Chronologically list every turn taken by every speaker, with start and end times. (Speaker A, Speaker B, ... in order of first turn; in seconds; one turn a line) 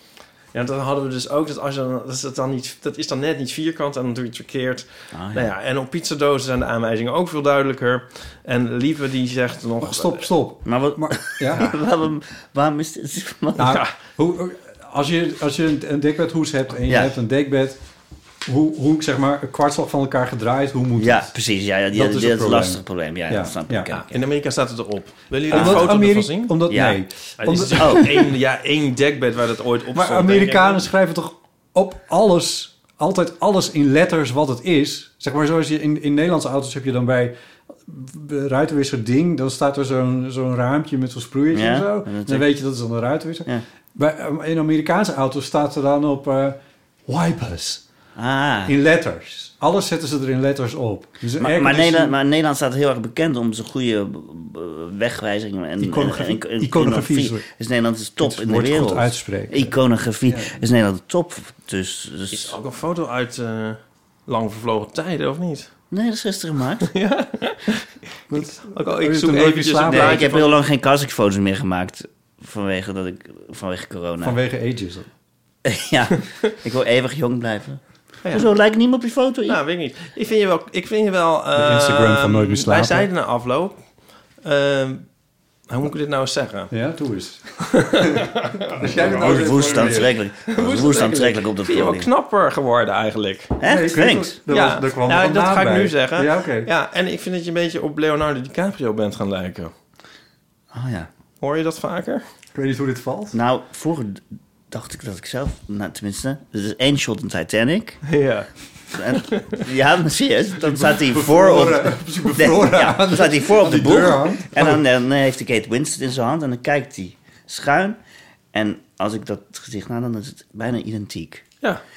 Speaker A: 0.5-10.3
Speaker B: 5.1-5.5
Speaker C: 9.8-11.7
Speaker B: 10.7-13.8
Speaker C: 13.6-17.8
Speaker B: 16.9-17.2
Speaker C: 18.5-21.3
Speaker B: 21.0-24.3
Speaker C: 21.9-23.9
Speaker A: 23.9-26.6
Speaker C: 25.5-28.1
Speaker B: 25.5-25.9
Speaker B: 26.7-27.0
Speaker A: 27.4-30.8
Speaker B: 27.7-28.2
Speaker C: 29.9-37.3
Speaker C: 37.9-47.9
Speaker B: 41.5-42.5
Speaker B: 48.1-48.7
Speaker C: 48.7-52.2
Speaker B: 51.4-62.6
Speaker C: 55.8-57.5
Speaker C: 58.2-59.8
Speaker C: 60.3-60.6
Speaker A: 62.3-65.7
Speaker B: 65.9-66.9
Speaker A: 66.8-70.6
Speaker C: 68.3-70.2
Speaker B: 69.9-74.4
Speaker C: 74.2-75.1
Speaker B: 75.7-79.6
Speaker A: 79.5-83.8
Speaker C: 81.5-83.1
Speaker A: 84.4-85.1
Speaker A: 85.7-86.7
Speaker C: 86.7-90.1
Speaker A: 87.8-89.5
Speaker B: 89.0-92.1
Speaker A: 90.5-93.6
Speaker B: 93.6-94.4
Speaker C: 93.6-96.7
Speaker A: 94.5-99.7
Speaker B: 100.7-101.1
Speaker A: 101.4-102.2
Speaker C: 102.5-103.4
Speaker B: 103.3-108.1
Speaker A: 108.1-108.5
Speaker B: 108.9-118.0
Speaker A: 109.1-109.6
Speaker C: 110.6-114.8
Speaker B: 118.5-121.5